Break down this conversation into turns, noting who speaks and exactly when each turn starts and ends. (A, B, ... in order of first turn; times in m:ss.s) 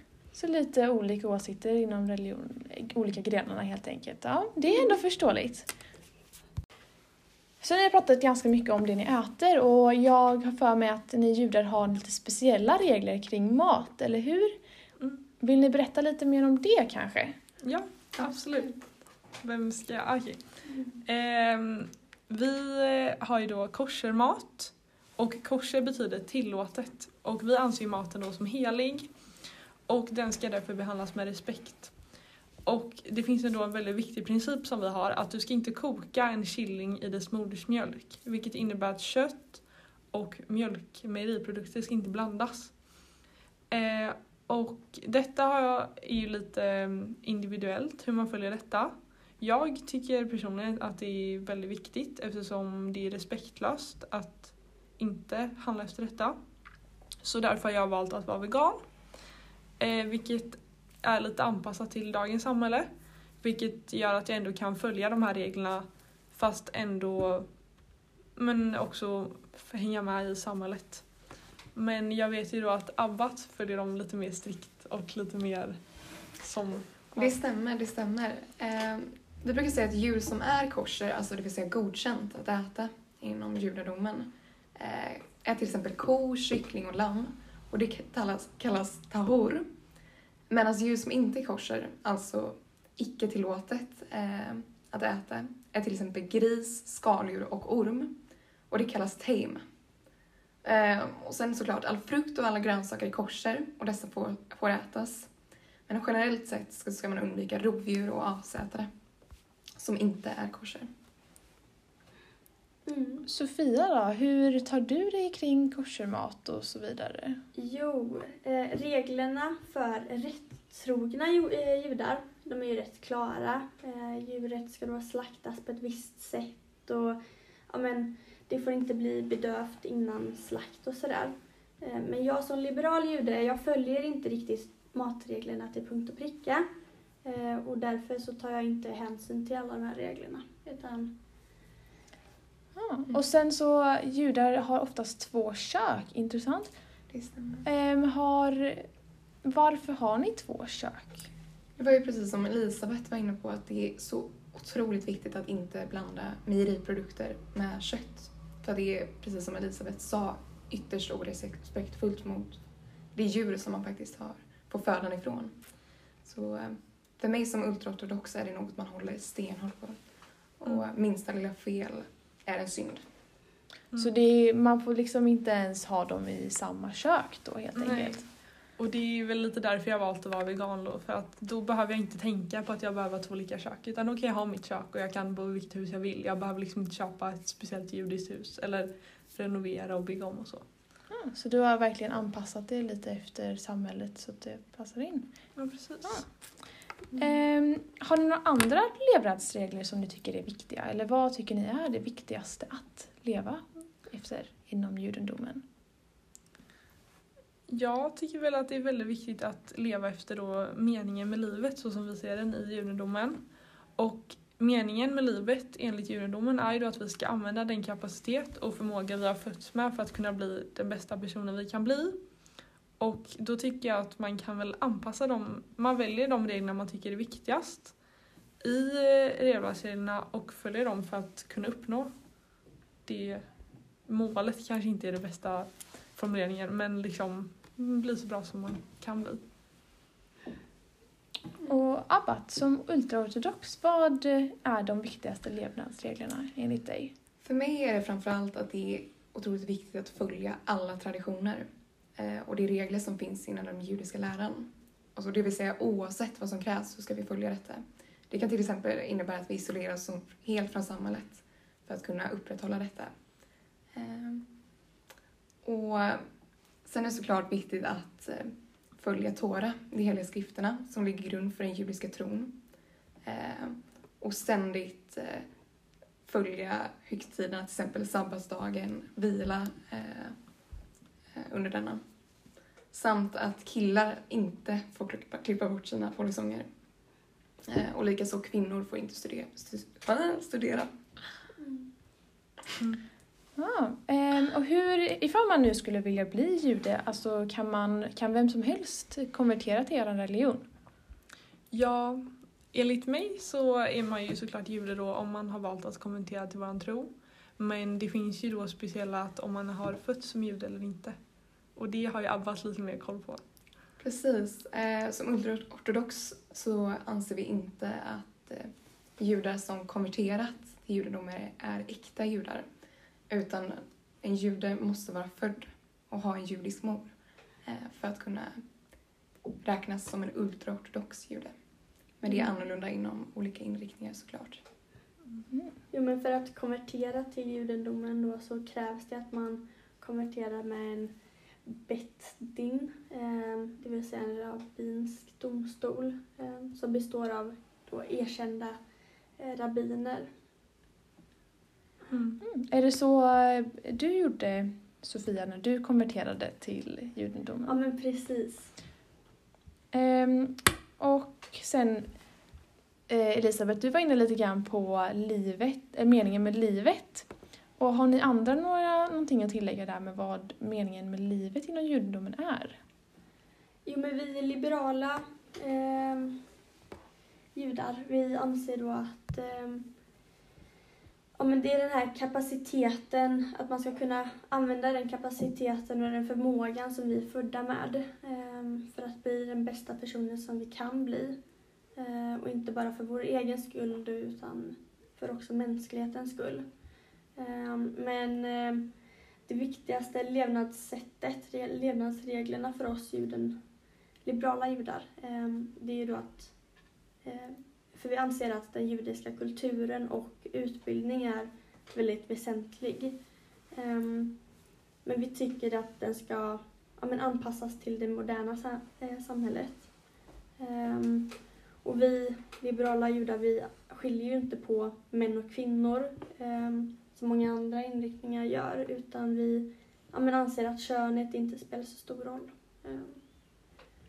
0:00.3-0:05.7 A
0:07.6-0:14.6 A
0:15.4-0:17.4 A
0:17.6-0:18.8 B
0:19.4-0:20.4 B
0:20.7-0:21.0 C
0:21.0-0:29.1 B
0:29.9-0:31.9 B
0:32.6-0:42.7 B
0:43.7-0:56.3 B
0:57.2-0:58.8 B
0:59.8-1:02.9 B
1:03.4-1:07.5 B
1:08.4-1:11.0 B
1:11.7-1:15.8 B
1:16.4-1:17.3 B
1:17.1-1:29.7 D
1:30.5-1:38.1 D
1:38.7-1:39.6 D
1:40.6-1:45.3 D
1:45.9-1:48.9 D
1:49.8-1:50.9 D
1:52.8-1:53.2 C
1:53.3-1:57.4 A
1:57.5-2:16.7 C
2:17.2-2:21.1 C
2:22.8-2:26.7 A
2:27.1-2:27.6 D
2:27.6-2:28.9 A
2:29.4-2:31.3 A
2:31.8-2:42.6 D
2:43.1-2:45.5 D
2:46.2-2:50.0 D
2:50.6-2:53.0 D
2:54.0-2:58.2 A
2:57.8-2:58.2 B
2:58.8-3:10.6 B
3:11.1-3:15.3 A
3:15.6-3:16.2 B
3:17.1-3:25.6 A
3:27.7-3:33.4 B
3:34.0-3:42.2 B
3:43.0-3:47.9 B
3:48.6-3:52.1 B
3:53.0-3:53.4 B
3:54.1-3:59.4 B
4:01.7-4:07.1 A
4:07.4-4:23.1 D
4:23.9-4:24.4 D
4:25.6-4:26.2 D
4:26.8-4:32.6 D
4:33.2-4:35.4 D
4:36.2-4:40.4 D
4:41.4-4:42.0 D
4:42.9-4:46.7 D
4:47.6-4:50.9 D
4:53.6-5:00.7 A
5:01.7-5:11.2 B
5:11.8-5:13.4 B
5:14.0-5:22.7 D
5:23.3-5:27.1 D
5:27.6-5:28.6 D
5:29.6-5:31.5 D
5:32.2-5:34.6 D
5:35.5-5:35.7 A
5:35.9-5:41.1 C
5:41.6-5:48.8 C
5:49.4-5:50.3 C
5:52.1-5:52.4 B
5:52.4-5:57.8 A
5:57.6-5:58.7 C
5:59.9-6:02.1 A
6:03.1-6:12.8 A
6:13.8-6:16.4 C
6:17.5-6:19.9 C
6:21.4-6:31.4 C
6:32.0-6:36.6 C
6:37.4-6:38.9 C
6:39.5-6:43.6 C
6:44.2-6:46.5 C
6:47.2-6:53.1 C
6:53.7-6:54.3 C
6:55.0-6:59.9 C
7:00.6-7:01.3 C
7:01.8-7:13.2 C